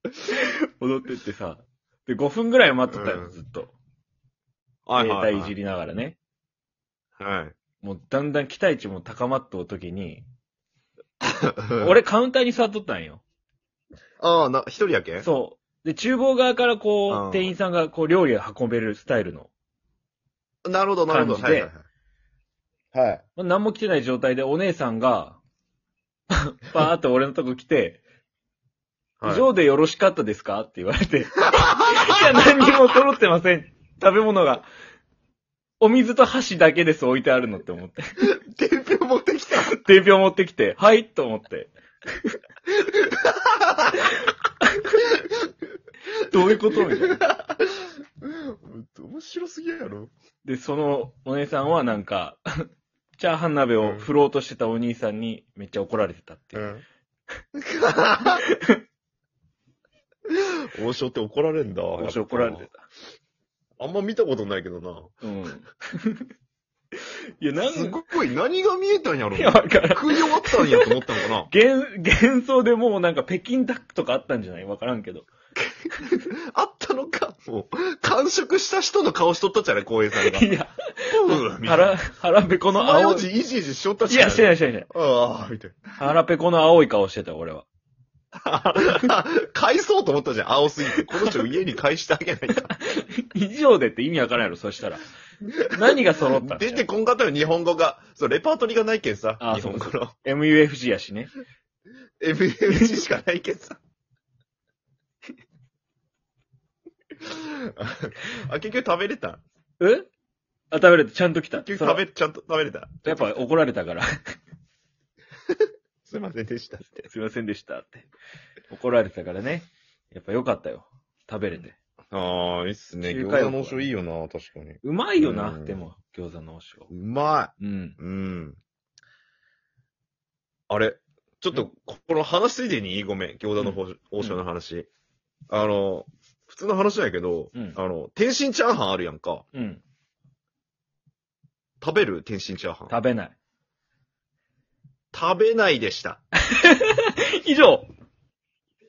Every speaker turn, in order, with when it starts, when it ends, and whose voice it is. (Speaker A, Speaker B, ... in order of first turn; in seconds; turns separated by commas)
Speaker A: 0.3-3.7, Speaker B: 2.9-3.3, Speaker B: 4.9-5.5, Speaker A: 5.0-6.2, Speaker B: 7.2-7.5, Speaker A: 7.8-10.2, Speaker B: 11.6-11.9, Speaker A: 11.8-13.2, Speaker B: 14.2-15.3, Speaker A: 15.2-19.5, Speaker B: 17.1-17.5, Speaker B: 20.6-21.8, Speaker A: 21.1-21.7, Speaker B: 22.9-23.2, Speaker A: 23.4-25.4, Speaker A: 26.3-28.0, Speaker B: 29.2-29.5, Speaker A: 29.2-34.7, Speaker B: 31.6-32.0, Speaker A: 35.8-38.1, Speaker B: 38.2-39.8, Speaker A: 39.6-41.7, Speaker B: 42.7-44.1, Speaker A: 46.3-47.2, Speaker B: 46.5-47.7, Speaker B: 48.2-50.1, Speaker A: 50.4-52.4, Speaker A: 53.2-56.7, Speaker B: 53.8-54.1, Speaker B: 56.5-56.8, Speaker B: 57.5-58.4, Speaker B: 60.3-62.6, Speaker A: 62.0-62.9, Speaker B: 63.8-65.1, Speaker A: 65.2-66.2, Speaker A: 67.4-68.0, Speaker B: 67.7-71.5, Speaker A: 69.3-75.3, Speaker B: 75.6-80.5, Speaker A: 80.2-83.3, Speaker B: 81.1-82.0, Speaker B: 82.7-85.9, Speaker A: 84.1-84.9, Speaker A: 86.0-87.7, Speaker B: 88.4-92.7, Speaker A: 92.7-95.0, Speaker A: 95.7-96.8, Speaker B: 96.3-100.1, Speaker A: 99.4-101.3, Speaker B: 102.2-103.8, Speaker B: 107.2-109.4, Speaker A: 109.8-110.1, Speaker A: 110.7-112.0, Speaker B: 111.6-113.4, Speaker A: 113.0-114.1, Speaker B: 116.0-117.1, Speaker A: 117.0-118.1, Speaker A: 118.7-121.7, Speaker B: 122.1-125.8, Speaker A: 123.0-123.9, Speaker A: 124.8-126.9, Speaker B: 126.9-128.6, Speaker A: 127.6-128.0, Speaker B: 130.7-134.9, Speaker A: 133.6-134.3, Speaker B: 135.5-139.4, Speaker A: 139.5-139.8, Speaker B: 141.8-143.0, Speaker A: 142.9-143.3, Speaker B: 145.1-146.2, Speaker A: 146.5-147.9